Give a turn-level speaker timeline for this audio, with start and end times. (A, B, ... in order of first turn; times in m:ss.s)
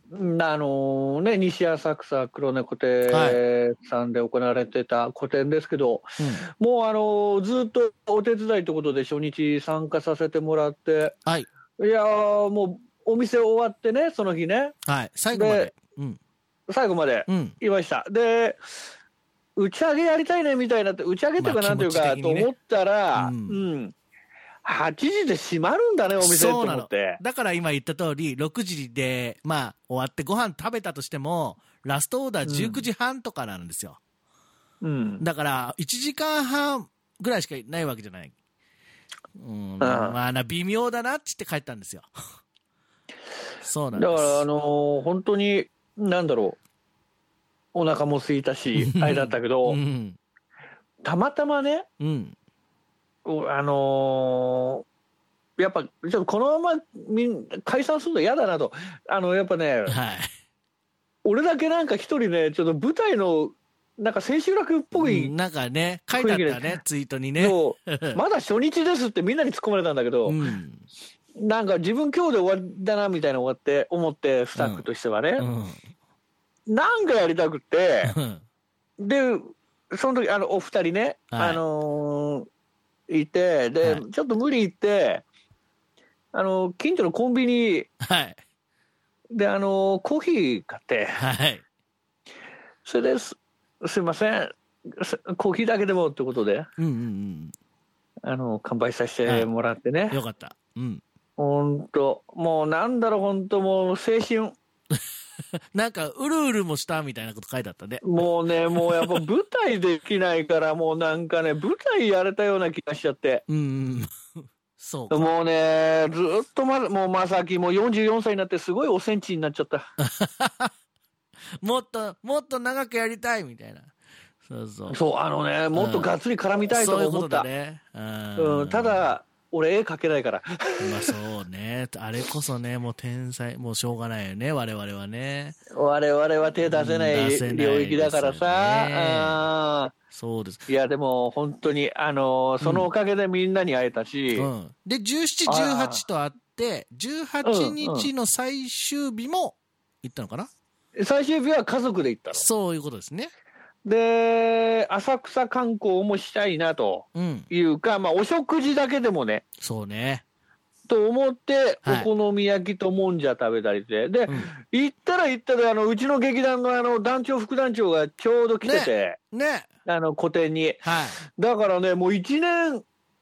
0:00.1-0:11.2 A
0:03.1-0:03.4 B
0:06.2-0:06.4 B
0:11.8-0:14.8 A
0:14.9-0:16.2 B
0:15.3-0:15.7 A
0:16.7-0:18.6 A
0:17.3-0:17.6 B
0:19.6-0:23.9 A
0:21.4-0:22.5 B
0:23.2-0:23.6 B
0:24.6-0:27.2 A
0:26.2-0:34.0 B
0:32.4-0:32.8 A
0:34.8-0:35.2 A
0:35.2-0:38.3 B
0:39.4-0:42.1 B
0:39.8-0:40.2 A
0:43.6-0:44.4 B
0:43.9-0:46.6 A
0:47.7-0:49.8 A
0:48.8-0:50.2 B
0:51.0-0:51.9 A
0:52.0-0:52.4 B
0:53.2-0:54.8 A
0:55.6-1:00.0 A
0:59.9-1:00.3 B
1:01.2-1:05.3 A
1:04.9-1:08.2 B
1:06.1-1:06.8 A
1:07.4-1:10.4 A
1:10.3-1:10.9 B
1:11.4-1:15.5 A
1:14.6-1:14.9 B
1:15.4-1:15.8 B
1:16.7-1:18.2 A
1:18.0-1:18.4 B
1:19.0-1:22.5 A
1:21.3-1:21.6 B
1:23.1-1:25.2 A
1:26.3-1:27.9 A
1:28.0-1:28.4 B
1:29.3-1:31.2 A
1:31.2-1:31.6 B
1:32.8-1:36.7 A
1:36.8-1:37.6 B
1:38.2-1:40.2 A
1:40.1-1:41.0 B
1:41.4-1:44.6 A
1:45.7-1:48.2 B
1:48.0-1:53.4 A
1:48.8-1:49.2 B
1:53.5-1:54.1 B
1:54.8-1:55.3 B
1:55.1-1:59.8 A
2:00.0-2:00.7 B
2:01.6-2:03.9 B
2:04.4-2:05.0 B
2:04.9-2:07.5 A
2:05.7-2:06.1 B
2:06.7-2:09.1 B
2:08.4-2:11.1 A
2:10.8-2:15.6 B
2:15.7-2:19.9 A
2:16.7-2:19.5 B
2:20.1-2:20.6 B
2:20.7-2:24.5 A
2:22.6-2:22.9 B
2:24.4-2:30.5 B
2:25.5-2:26.0 A
2:27.4-2:28.1 A
2:31.0-2:32.4 A
2:32.3-2:33.3 B
2:33.8-2:39.4 A
2:37.2-2:37.5 B
2:39.6-2:40.2 B
2:40.9-2:49.2 A
2:41.8-2:42.1 B
2:48.6-2:49.7 B
2:49.9-2:52.8 A
2:50.8-2:51.2 B